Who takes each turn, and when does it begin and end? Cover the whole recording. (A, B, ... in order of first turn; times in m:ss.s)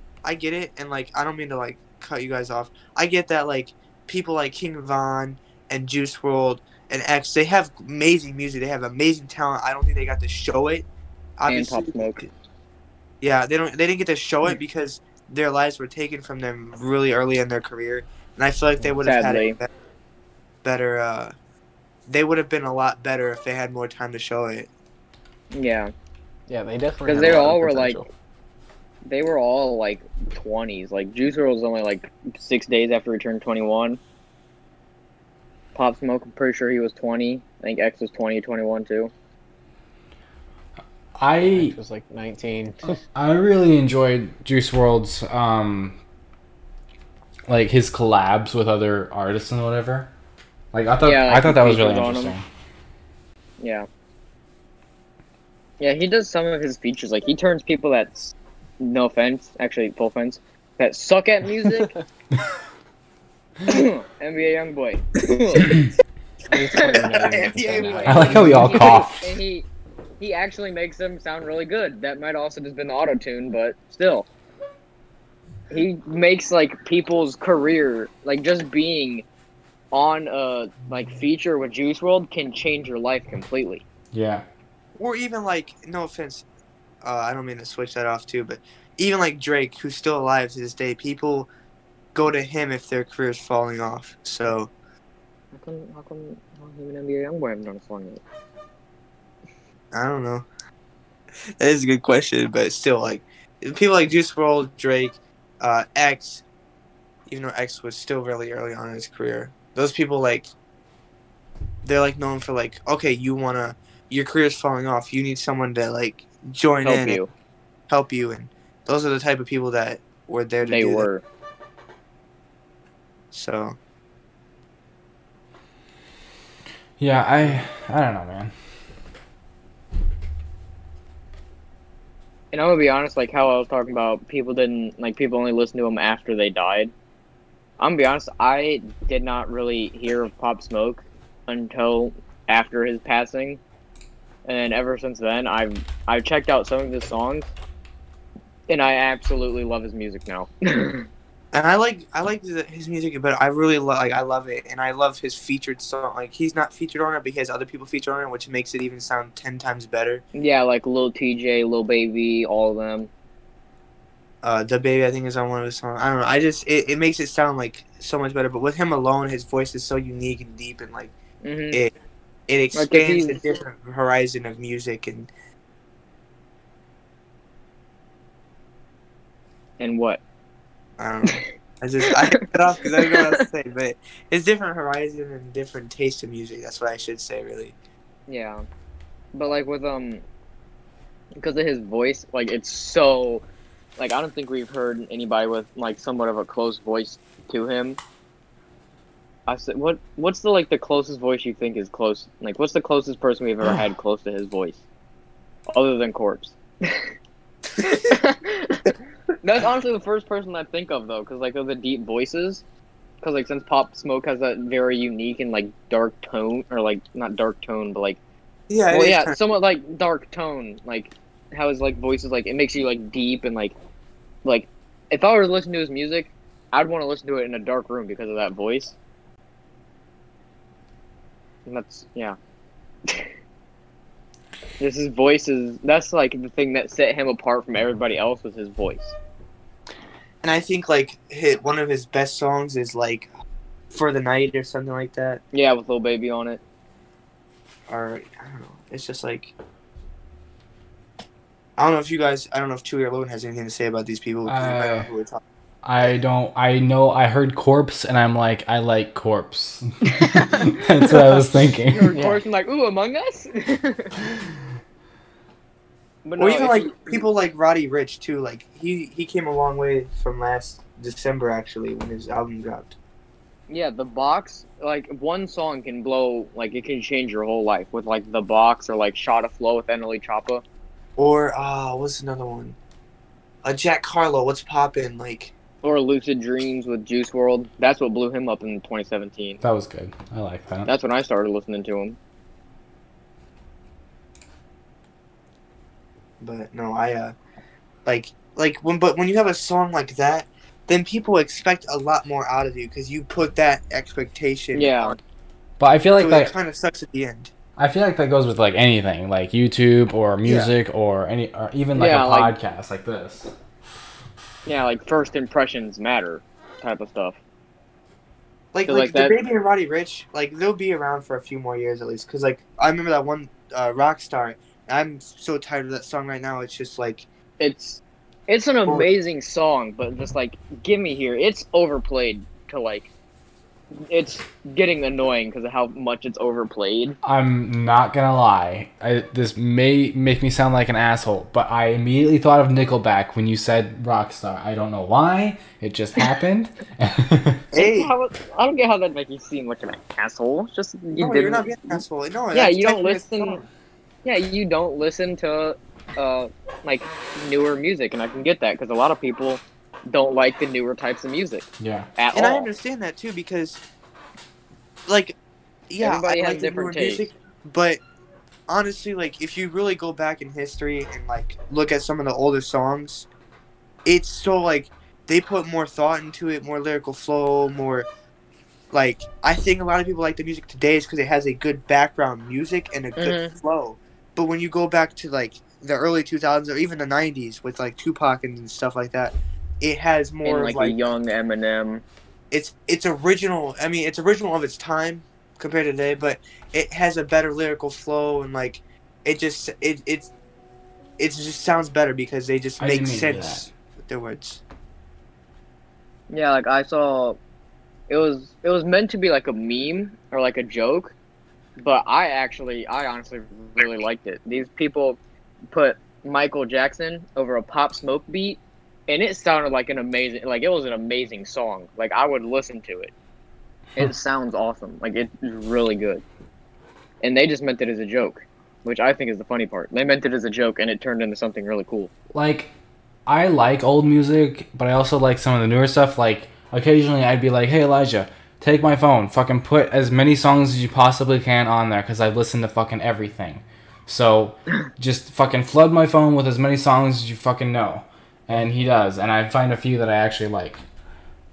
0:00.2-0:10.9 A
0:11.4-0:12.3 A
0:11.5-0:12.3 B
0:13.2-0:19.7 A
0:19.0-0:19.6 B
0:20.6-0:21.3 A
0:22.1-0:24.7 A
0:25.5-0:25.9 B
0:26.5-0:28.1 C
0:27.0-0:28.0 B
0:29.0-0:34.0 B
0:35.8-0:39.1 B
0:41.2-0:41.8 D
0:41.4-0:43.0 C
0:43.1-0:46.0 D
0:47.5-0:50.1 D
0:50.7-0:52.4 D
0:51.0-0:52.3 B
0:53.6-0:53.9 B
0:55.8-1:01.9 B
1:03.6-1:05.8 B
1:06.5-1:09.1 C
1:06.7-1:08.6 A
1:07.8-1:09.7 B
1:08.0-1:09.4 D
1:10.2-1:14.3 B
1:15.7-1:19.3 B
1:19.9-1:23.8 B
1:24.1-1:24.4 D
1:25.0-1:26.4 A
1:27.0-1:31.5 A
1:32.2-1:34.7 A
1:35.5-1:38.2 B
1:39.9-1:40.4 A
1:41.6-1:46.4 A
1:47.3-1:50.5 A
1:51.8-1:57.2 A
1:56.8-1:57.3 B
1:57.9-2:01.1 A
2:00.6-2:01.2 B
2:03.3-2:03.8 A
2:07.0-2:08.5 D
2:12.5-2:16.9 B
2:17.8-2:23.6 B
2:24.4-2:27.5 B
2:28.7-2:31.1 B
2:31.5-2:40.2 A
2:40.4-2:43.1 B
2:44.4-2:51.1 A
2:51.4-2:51.8 B
2:52.5-2:55.3 A
2:52.7-2:53.4 B
2:59.8-3:00.2 B
3:01.0-3:07.8 A
3:03.0-3:03.3 B
3:08.3-3:08.6 B
3:09.3-3:10.2 B
3:11.4-3:13.4 B
3:14.0-3:18.0 B
3:19.5-3:24.8 B
3:25.7-3:27.1 B
3:27.8-3:32.6 B
3:33.2-3:38.2 B
3:38.7-3:39.4 A
3:38.9-3:43.8 B
3:44.4-3:49.0 B
3:51.7-3:52.4 B
3:53.1-3:53.3 B
3:54.8-3:59.2 B
4:00.4-4:03.3 A
4:03.9-4:05.4 A
4:05.5-4:06.6 B
4:07.9-4:09.5 A
4:11.8-4:15.4 A
4:14.5-4:15.1 D
4:15.8-4:22.2 D
4:20.1-4:24.1 B
4:26.2-4:27.2 B
4:26.4-4:33.0 A
4:33.7-4:40.6 B
4:41.2-4:42.8 A
4:43.6-4:45.5 A
4:45.8-4:49.6 B
4:49.6-4:50.9 D
4:50.9-4:52.2 B
4:56.4-4:57.4 A
4:58.0-5:05.2 A
5:04.7-5:05.2 B
5:05.8-5:06.5 D
5:06.2-5:07.5 A
5:07.8-5:13.5 D
5:10.4-5:10.7 A
5:11.9-5:12.5 B
5:14.7-5:17.4 B
5:18.7-5:27.3 A
5:18.9-5:19.4 B
5:27.6-5:33.1 B
5:34.1-5:37.2 B
5:37.2-5:47.6 D
5:47.7-5:48.1 A
5:47.7-5:52.0 B
5:51.2-5:53.7 A
5:52.5-5:53.6 B
5:54.2-6:01.7 B
6:01.8-6:02.1 D
6:02.2-6:02.7 B
6:02.3-6:03.8 A
6:05.1-6:05.4 A
6:05.9-6:08.0 A
6:06.0-6:07.3 B
6:08.7-6:13.3 A
6:14.0-6:18.1 A
6:18.9-6:31.1 A
6:23.2-6:23.5 B
6:30.4-6:32.0 B
6:32.5-6:40.3 A
6:41.2-6:44.6 A
6:42.8-6:43.7 D
6:46.3-6:47.4 B
6:48.1-6:51.1 B
6:51.8-6:55.2 B
6:55.7-7:03.1 B
7:04.0-7:06.2 B
7:07.2-7:12.1 B
7:12.3-7:12.7 D
7:13.3-7:30.8 D